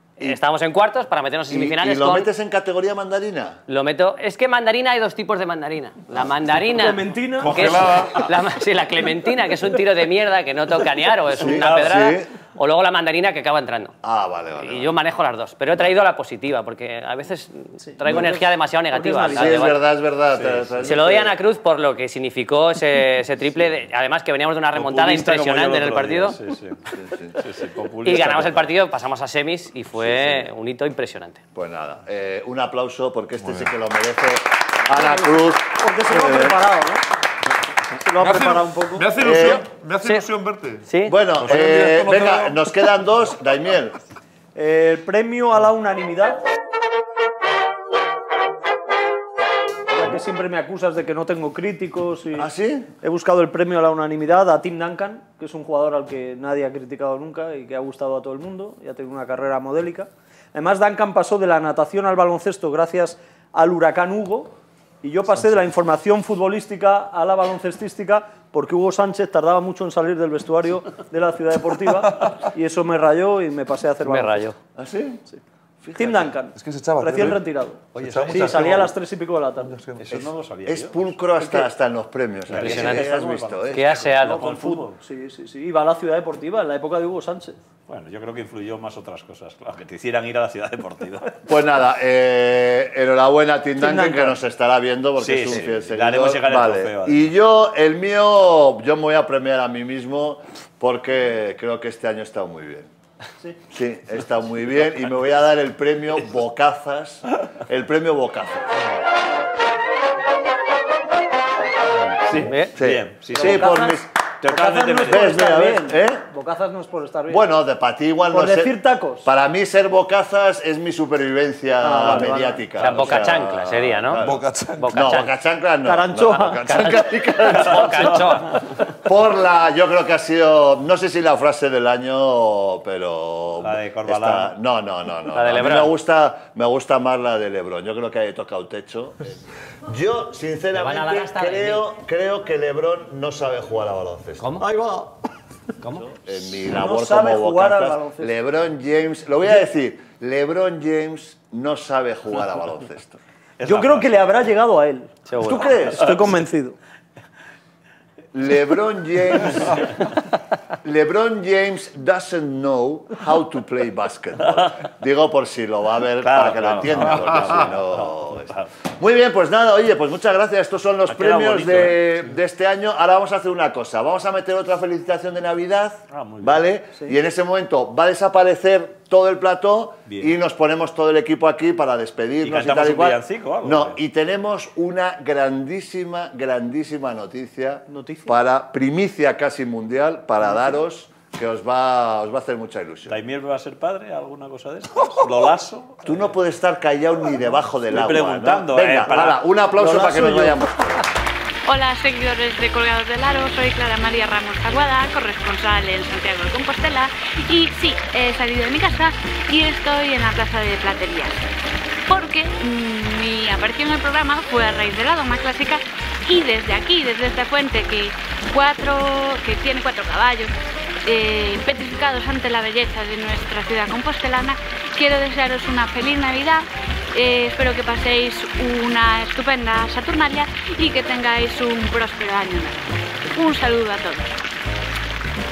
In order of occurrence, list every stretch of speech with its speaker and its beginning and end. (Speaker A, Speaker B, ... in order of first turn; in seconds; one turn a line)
Speaker A: 0.2-2.3
Speaker B: 1.5-3.6
Speaker A: 3.7-13.9
Speaker C: 6.8-7.6
Speaker D: 7.4-8.4
Speaker B: 11.4-12.3
Speaker E: 11.4-12.1
Speaker B: 14.0-14.9
Speaker A: 14.6-19.8
Speaker C: 17.9-18.4
Speaker C: 18.9-19.6
Speaker B: 19.3-21.3
Speaker E: 20.3-20.7
Speaker A: 20.8-26.4
Speaker E: 24.8-26.8
Speaker B: 27.0-27.3
Speaker E: 27.4-28.7
Speaker A: 28.1-31.4
Speaker B: 31.6-36.6
Speaker D: 33.4-33.7
Speaker C: 34.9-37.0
Speaker C: 38.0-39.5
Speaker D: 38.2-42.6
Speaker B: 39.2-39.6
Speaker A: 40.9-41.1
Speaker B: 41.1-44.0
Speaker C: 44.5-46.4
Speaker C: 49.9-52.5
Speaker B: 52.3-52.9
Speaker C: 53.0-74.5
Speaker A: 74.0-74.6
Speaker B: 74.8-75.2
Speaker B: 75.8-76.4
Speaker C: 76.0-79.8
Speaker D: 76.5-79.0
Speaker E: 78.0-78.8
Speaker D: 79.6-80.0
Speaker E: 80.0-81.5
Speaker B: 80.1-84.1
Speaker E: 82.5-85.0
Speaker A: 82.6-83.1
Speaker C: 82.8-83.6
Speaker A: 83.7-84.5
Speaker C: 84.2-87.6
Speaker E: 87.9-91.3
Speaker B: 91.5-102.9
Speaker C: 93.8-94.4
Speaker E: 95.2-97.3
Speaker B: 103.7-108.9
Speaker E: 112.2-115.6
Speaker B: 112.8-114.1
Speaker C: 113.3-117.5
Speaker B: 115.0-116.2
Speaker B: 117.3-128.2
Speaker C: 118.3-119.3
Speaker C: 121.8-123.4
Speaker A: 122.8-124.2
Speaker D: 124.2-125.0
Speaker A: 124.8-125.3
Speaker C: 125.8-126.6
Speaker A: 126.7-128.5
Speaker B: 129.1-144.5
Speaker E: 133.6-134.5
Speaker A: 135.3-135.9
Speaker A: 140.7-141.8
Speaker C: 144.6-145.1
Speaker A: 145.8-146.1
Speaker B: 146.2-153.2
Speaker C: 146.7-148.3
Speaker E: 153.6-154.3
Speaker C: 153.6-156.8
Speaker A: 155.3-155.8
Speaker B: 155.5-155.8
Speaker B: 158.3-159.9
Speaker B: 160.8-193.2
Speaker E: 166.2-168.7
Speaker E: 171.1-172.0
Speaker E: 176.1-176.7
Speaker E: 180.1-180.3
Speaker E: 182.4-184.0
Speaker C: 187.9-188.4
Speaker E: 193.1-196.3
Speaker B: 196.1-201.1
Speaker E: 197.9-199.4
Speaker C: 199.8-200.6
Speaker F: 201.7-211.4
Speaker F: 212.1-220.5
Speaker F: 221.1-234.3